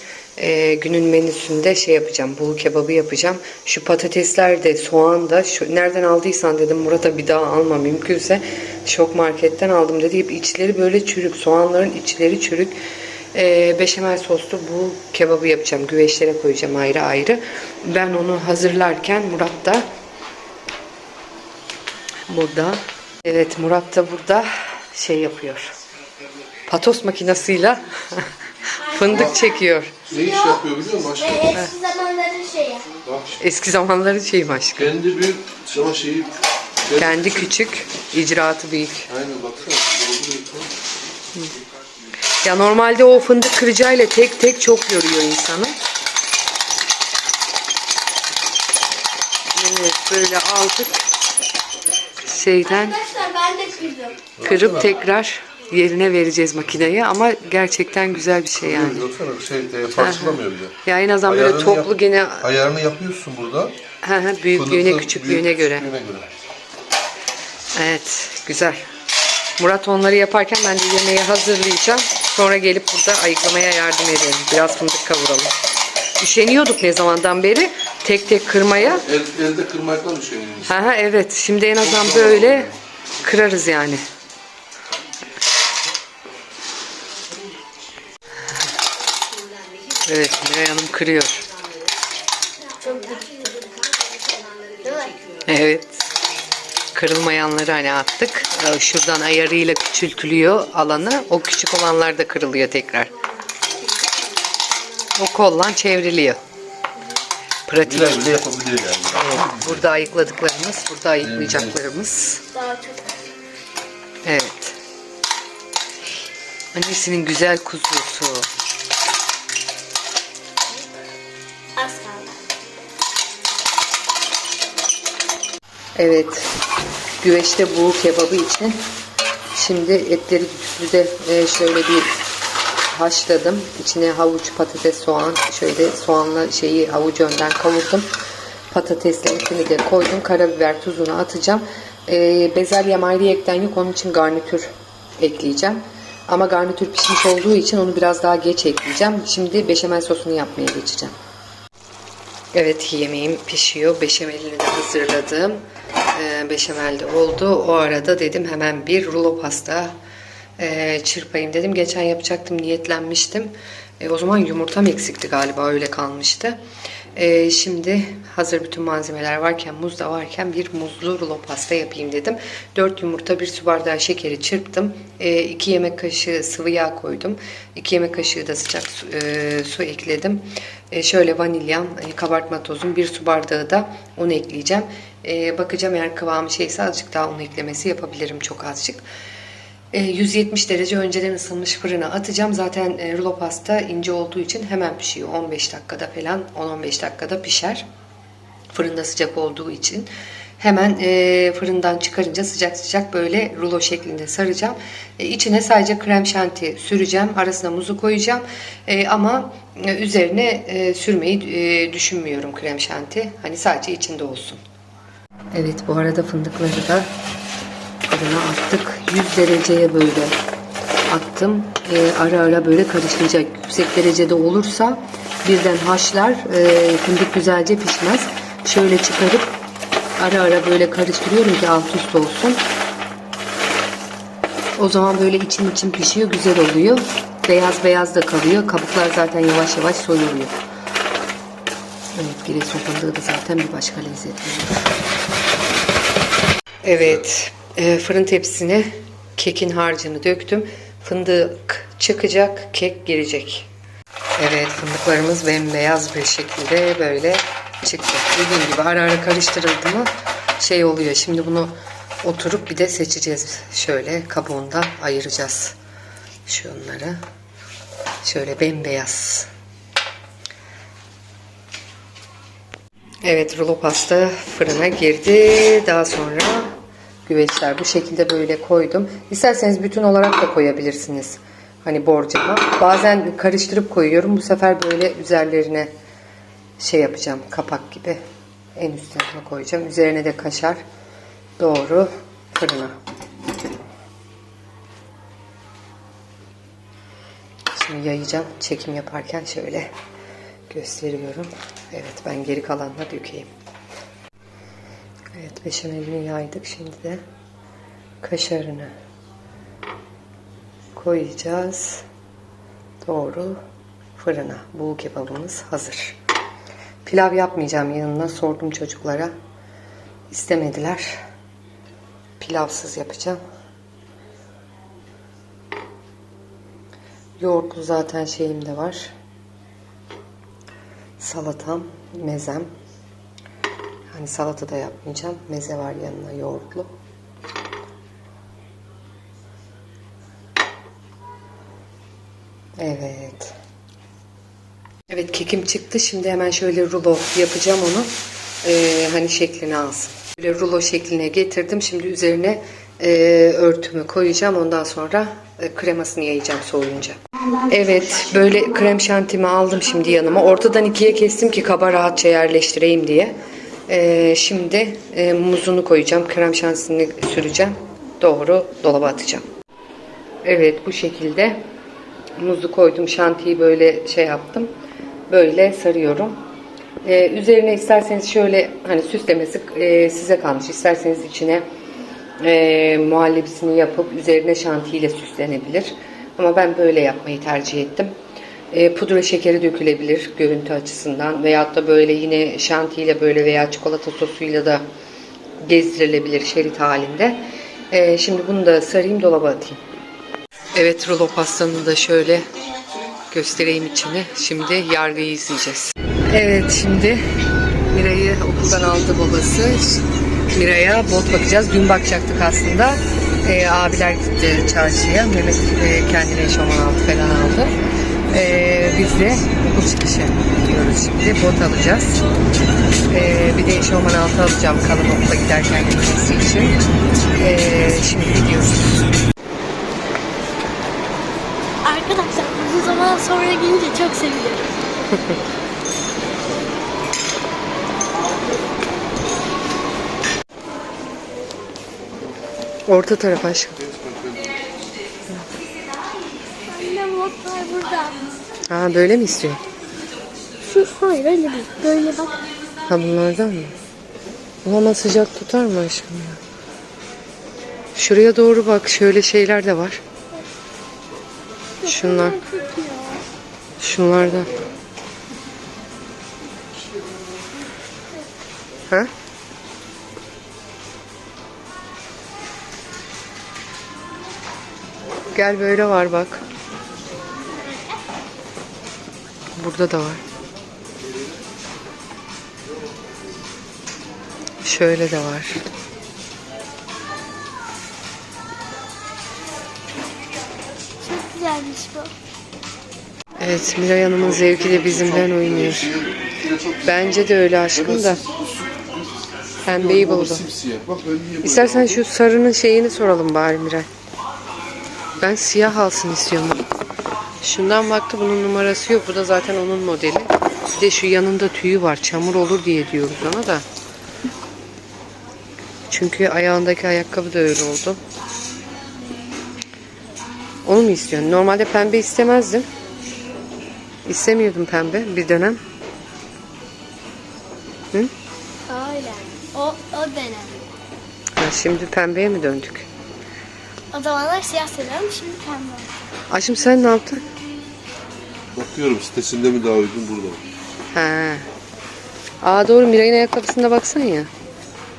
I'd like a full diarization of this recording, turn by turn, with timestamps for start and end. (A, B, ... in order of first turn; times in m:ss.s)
0:00.4-0:12.8 A
0:13.3-0:19.8 A
0:22.3-0:25.7 A
0:26.7-0:30.1 A
0:28.8-0:29.5 B
0:30.1-0:31.6 C
0:30.1-0:32.9 B
0:33.0-0:33.4 C
0:33.4-0:35.0 A
0:34.8-0:37.3 C
0:36.9-0:39.1 A
0:39.1-0:40.8 C
0:42.4-0:45.8 A
0:49.5-0:51.1 A
0:52.2-0:53.0 A
0:52.7-0:54.3 B
0:54.4-0:54.8 C
0:54.4-0:59.1 A
0:58.6-1:00.7 C
0:59.9-1:02.5 A
1:01.2-1:03.7 C
1:04.0-1:05.9 A
1:04.6-1:06.3 C
1:07.7-1:08.8 A
1:09.6-1:15.5 A
1:16.2-1:19.0 A
1:19.0-1:20.8 C
1:20.7-1:24.0 A
1:21.8-1:22.7 C
1:30.0-1:31.5 A
1:32.8-1:33.9 B
1:34.5-1:35.2 B
1:35.4-1:36.0 A
1:36.9-1:43.1 A
1:45.1-1:46.4 A
1:47.7-1:48.3 A
1:47.8-1:49.8 C
1:49.1-1:52.4 A
1:51.2-1:51.7 C
1:52.5-1:53.1 B
1:54.2-1:54.8 A
1:56.7-1:58.5 A
2:01.8-2:02.3 B
2:06.0-2:06.6 A
2:07.2-2:08.8 A
2:09.5-2:12.1 A
2:12.9-2:18.1 A
2:18.7-2:31.1 A
2:32.5-2:35.6 A
2:36.1-2:39.9 A
2:40.6-2:46.6 A
2:47.1-3:09.0 A
3:09.9-3:17.8 A
3:18.7-3:20.1 A
3:20.6-3:34.6 A
3:35.5-3:37.1 A
3:38.0-3:40.4 A
3:41.1-3:49.5 A
3:50.2-3:52.6 A
3:54.8-4:00.6 A
4:02.1-4:04.8 A
4:06.8-4:13.7 A
4:14.4-4:25.8 A
4:26.4-4:27.2 A
4:28.2-4:29.5 A
4:33.2-4:36.7 A
4:37.2-4:45.9 A
4:46.8-4:48.2 A
4:48.8-4:50.8 A
4:51.6-4:53.0 A
4:57.7-4:59.9 A
5:00.7-5:03.5 A
5:05.3-5:07.2 A
5:08.2-5:08.9 A
5:10.9-5:12.0 A
5:13.0-5:13.6 A
5:14.2-5:16.2 A
5:17.0-5:19.3 A
5:20.3-5:21.2 A
5:22.4-5:23.4 A
5:27.4-5:29.1 A
5:31.2-5:32.7 A
5:34.1-5:36.9 A
5:42.8-5:43.5 A
5:45.1-6:03.4 A
6:03.9-6:09.4 A
6:10.4-6:11.6 A
6:12.4-6:14.7 A
6:15.3-6:16.4 A
6:17.0-6:21.6 A
6:22.4-6:28.1 A
6:28.7-6:34.8 A
6:35.6-6:39.8 A
6:40.7-6:42.5 A
6:43.3-6:47.2 A
6:47.9-6:57.7 A
6:58.3-7:02.2 A
7:03.1-7:06.8 A
7:07.4-7:09.0 A
7:11.8-7:14.8 B
7:22.8-7:23.8 A
7:23.8-7:24.5 C
7:26.7-7:28.2 B
7:28.7-7:29.6 A
7:30.6-7:32.4 B
7:32.9-7:33.7 A
7:34.6-7:36.4 A
7:38.0-7:40.0 A
7:41.8-7:43.2 B
7:41.8-7:42.4 A
7:43.8-7:44.6 A
7:55.3-7:56.4 A
7:57.5-7:58.0 B
7:59.6-8:00.2 A
8:04.6-8:05.6 A
8:11.0-8:12.1 B
8:13.4-8:15.9 A
8:14.2-8:17.0 C
8:16.8-8:18.2 A
8:17.8-8:19.1 C
8:19.6-8:20.5 A
8:19.8-8:22.0 C
8:21.4-8:23.9 A
8:25.2-8:26.7 A
8:27.4-8:33.6 A
8:35.9-8:38.0 A
8:40.6-8:42.7 A
8:44.0-8:45.6 A
8:48.7-8:50.5 B
8:51.4-8:52.9 A
8:53.9-8:55.9 B
8:56.3-8:57.2 A
8:58.5-9:00.4 C
9:00.9-9:01.5 A
9:02.4-9:04.3 A